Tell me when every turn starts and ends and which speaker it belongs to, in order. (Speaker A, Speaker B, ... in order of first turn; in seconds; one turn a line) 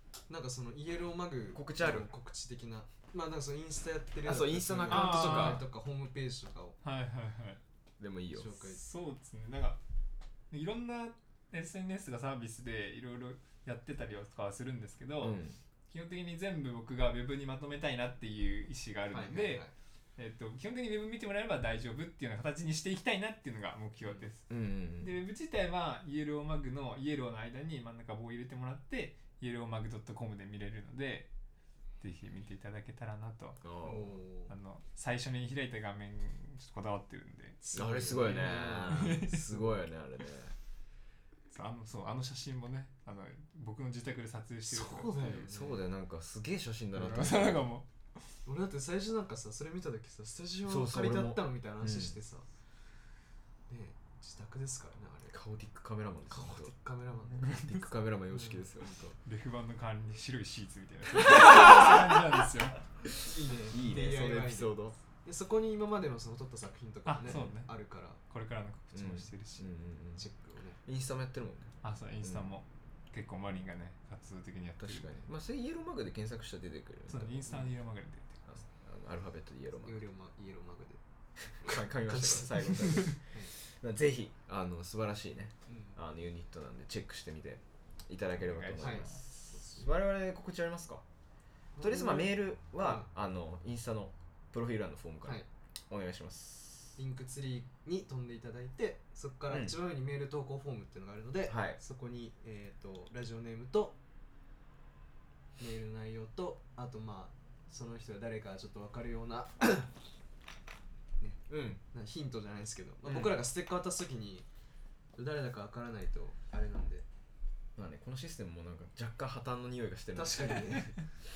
Speaker A: 0.3-6.8
Speaker B: 1.5-2.1
Speaker B: 4.2-5.6
Speaker C: 4.9-5.7
Speaker C: 6.8-7.6
Speaker B: 8.0-8.5
Speaker A: 8.3-8.8
Speaker C: 8.6-9.8
Speaker C: 10.5-15.4
Speaker B: 15.2-15.6
Speaker C: 15.9-31.3
Speaker A: 19.1-19.7
Speaker A: 24.0-24.3
Speaker B: 24.5-25.2
Speaker C: 32.0-33.6
Speaker B: 33.6-34.2
Speaker A: 33.8-34.5
Speaker C: 34.5-37.6
Speaker A: 37.6-39.7
Speaker B: 37.7-40.5
Speaker C: 38.9-39.5
Speaker C: 41.5-45.5
Speaker A: 44.7-45.8
Speaker B: 45.5-47.7
Speaker C: 46.9-47.9
Speaker A: 48.5-52.5
Speaker B: 50.7-52.2
Speaker A: 53.7-55.4
Speaker B: 55.3-56.7
Speaker A: 56.3-57.6
Speaker C: 57.3-57.9
Speaker B: 57.4-59.2
Speaker A: 58.3-58.7
Speaker C: 59.2-62.8
Speaker B: 61.4-61.9
Speaker B: 63.1-65.0
Speaker A: 63.2-68.2
Speaker C: 67.1-69.7
Speaker B: 67.3-67.5
Speaker B: 68.9-70.2
Speaker A: 70.2-70.8
Speaker B: 70.8-72.5
Speaker C: 71.8-75.2
Speaker B: 74.8-77.7
Speaker C: 77.1-78.4
Speaker B: 78.5-80.0
Speaker A: 79.8-81.0
Speaker A: 81.6-83.5
Speaker B: 81.6-91.0
Speaker A: 85.7-86.0
Speaker C: 88.4-89.2
Speaker A: 88.8-89.9
Speaker A: 91.8-93.1
Speaker B: 91.8-97.0
Speaker A: 97.0-104.0
Speaker B: 99.5-99.8
Speaker B: 101.5-101.8
Speaker A: 105.6-109.9
Speaker A: 111.2-114.5
Speaker B: 111.5-111.8
Speaker B: 113.0-113.4
Speaker A: 115.2-117.1
Speaker B: 117.8-121.1
Speaker A: 120.2-121.0